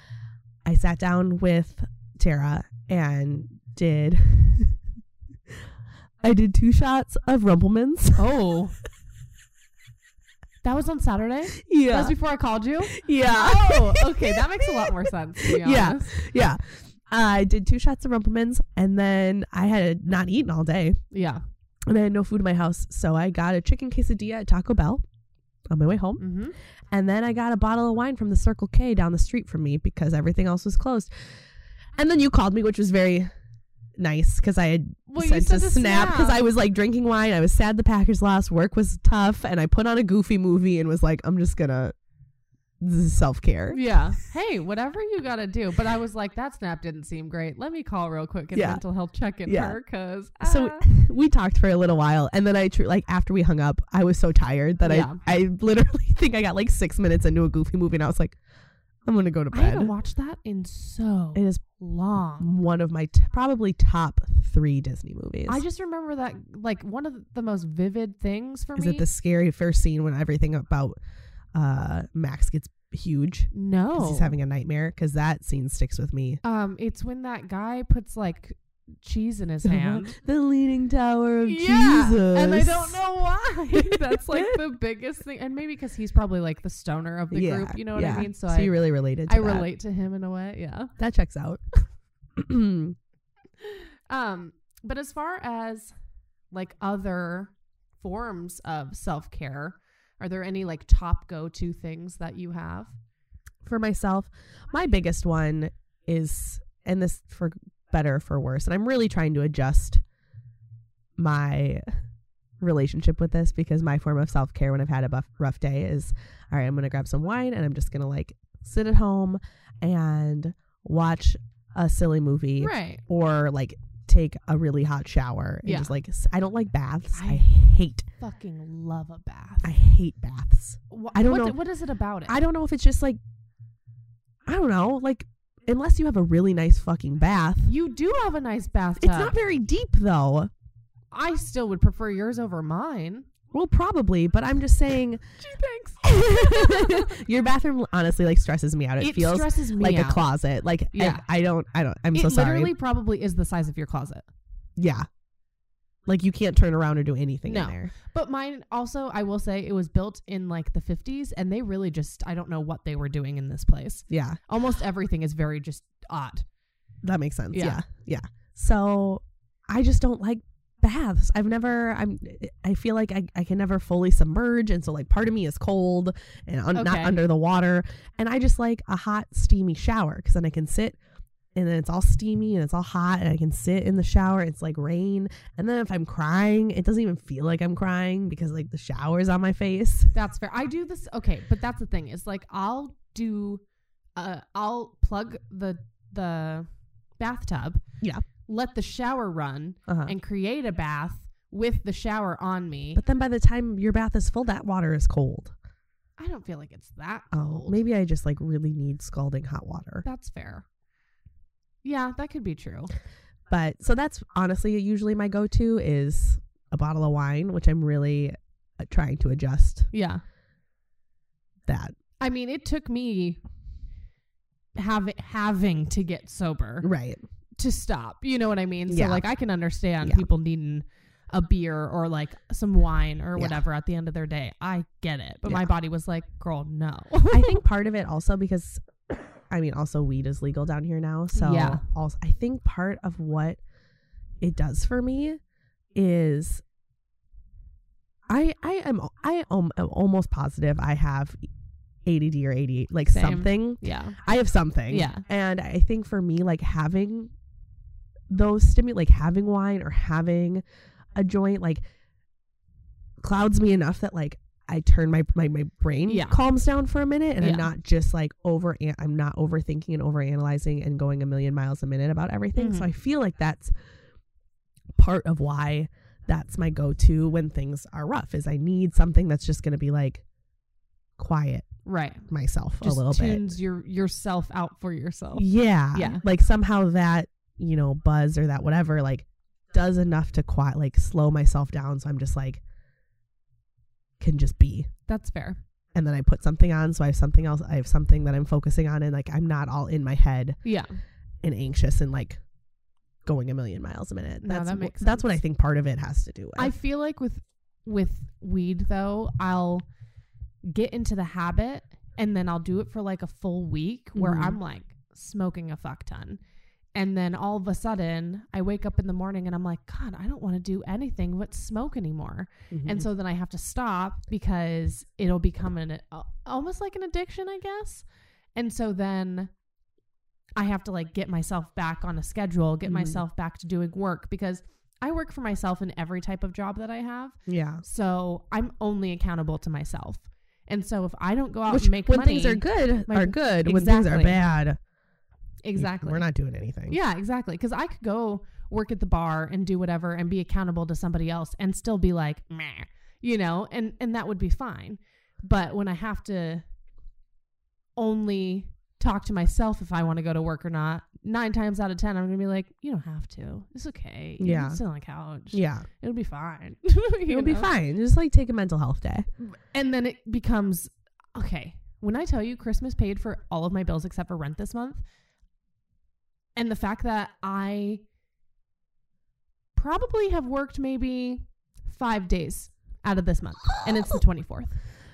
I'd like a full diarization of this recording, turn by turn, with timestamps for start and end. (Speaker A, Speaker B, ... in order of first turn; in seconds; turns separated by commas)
Speaker A: 0.6-4.8, Speaker A: 6.2-8.2, Speaker B: 8.2-8.8, Speaker B: 10.6-16.2, Speaker A: 11.6-12.1, Speaker A: 12.9-21.0, Speaker B: 21.1-21.4, Speaker A: 21.9-25.0, Speaker A: 25.7-26.2, Speaker B: 26.2-26.6, Speaker A: 26.9-31.3, Speaker A: 32.0-33.3, Speaker A: 34.0-41.9, Speaker B: 35.1-36.4, Speaker A: 42.8-43.8, Speaker B: 43.7-50.8, Speaker A: 48.5-48.8, Speaker A: 49.5-49.8, Speaker A: 50.4-58.4, Speaker B: 54.8-55.2, Speaker A: 59.0-59.9, Speaker B: 59.5-62.5, Speaker A: 61.3-61.6, Speaker A: 62.4-65.6, Speaker B: 65.5-69.0, Speaker A: 68.8-71.0, Speaker A: 71.5-76.4, Speaker B: 73.5-74.4, Speaker B: 76.4-80.1, Speaker A: 79.6-83.0, Speaker B: 81.4-88.7, Speaker A: 83.7-84.6, Speaker A: 87.3-89.7, Speaker B: 89.3-90.9, Speaker A: 91.0-91.6, Speaker A: 92.3-93.0, Speaker B: 93.6-95.9, Speaker B: 96.5-103.0, Speaker A: 103.6-110.0, Speaker A: 111.2-111.8, Speaker A: 112.6-128.1, Speaker B: 122.6-123.0, Speaker B: 125.6-125.9, Speaker B: 127.1-127.5, Speaker B: 128.2-129.7, Speaker A: 129.6-131.6, Speaker B: 130.9-132.4, Speaker A: 132.3-133.2, Speaker A: 134.5-137.7, Speaker B: 137.7-139.3, Speaker A: 139.0-140.5, Speaker B: 141.1-143.3, Speaker A: 143.5-145.2, Speaker B: 145.4-147.1, Speaker A: 146.0-152.7, Speaker B: 149.0-150.2, Speaker B: 150.9-151.2, Speaker B: 152.1-154.2, Speaker A: 154.8-155.1, Speaker A: 156.1-157.9, Speaker B: 157.4-166.4, Speaker A: 164.1-164.4, Speaker A: 167.0-181.0, Speaker B: 167.5-167.8, Speaker B: 176.7-177.2, Speaker A: 181.5-190.1, Speaker B: 190.1-193.6, Speaker B: 194.2-196.7, Speaker B: 197.2-197.8, Speaker B: 198.5-203.0, Speaker A: 199.9-200.1, Speaker A: 202.9-205.5, Speaker B: 206.2-207.8, Speaker A: 207.3-210.0, Speaker B: 210.0-210.7, Speaker B: 211.8-212.9, Speaker A: 213.5-219.9, Speaker B: 219.9-220.2, Speaker A: 221.7-221.9, Speaker B: 222.2-223.4, Speaker B: 224.8-226.9, Speaker A: 226.8-227.2, Speaker B: 227.6-237.6, Speaker A: 228.9-229.2, Speaker A: 235.4-235.7, Speaker A: 237.3-243.6, Speaker B: 241.3-241.8, Speaker A: 244.4-245.4, Speaker A: 245.9-246.6, Speaker A: 248.3-251.4, Speaker A: 252.0-257.3, Speaker B: 253.1-254.2, Speaker B: 254.9-255.2, Speaker A: 258.3-260.6, Speaker A: 261.1-261.8, Speaker A: 263.2-273.7, Speaker B: 266.1-266.4, Speaker B: 267.4-267.7, Speaker B: 272.6-272.9, Speaker A: 274.9-280.2, Speaker A: 281.2-281.7, Speaker B: 281.8-282.2, Speaker A: 282.3-283.5, Speaker B: 282.8-286.2, Speaker A: 285.3-292.6, Speaker A: 294.2-294.9, Speaker B: 295.1-295.6, Speaker A: 295.9-300.6, Speaker B: 300.6-300.9, Speaker A: 301.4-302.4, Speaker A: 303.2-306.7, Speaker B: 304.4-305.3, Speaker B: 306.6-309.8, Speaker B: 310.6-316.4, Speaker A: 314.1-314.6, Speaker B: 316.9-328.0, Speaker A: 322.7-323.1, Speaker B: 328.6-329.5, Speaker B: 330.6-344.4, Speaker A: 332.8-333.2, Speaker A: 337.5-337.8, Speaker A: 341.7-344.8, Speaker B: 345.6-346.2, Speaker A: 345.8-347.0, Speaker B: 346.9-356.6, Speaker B: 358.0-367.7, Speaker A: 364.4-364.8, Speaker A: 365.5-365.9, Speaker A: 367.3-369.2, Speaker B: 369.4-375.0, Speaker B: 376.6-378.0, Speaker B: 379.8-384.8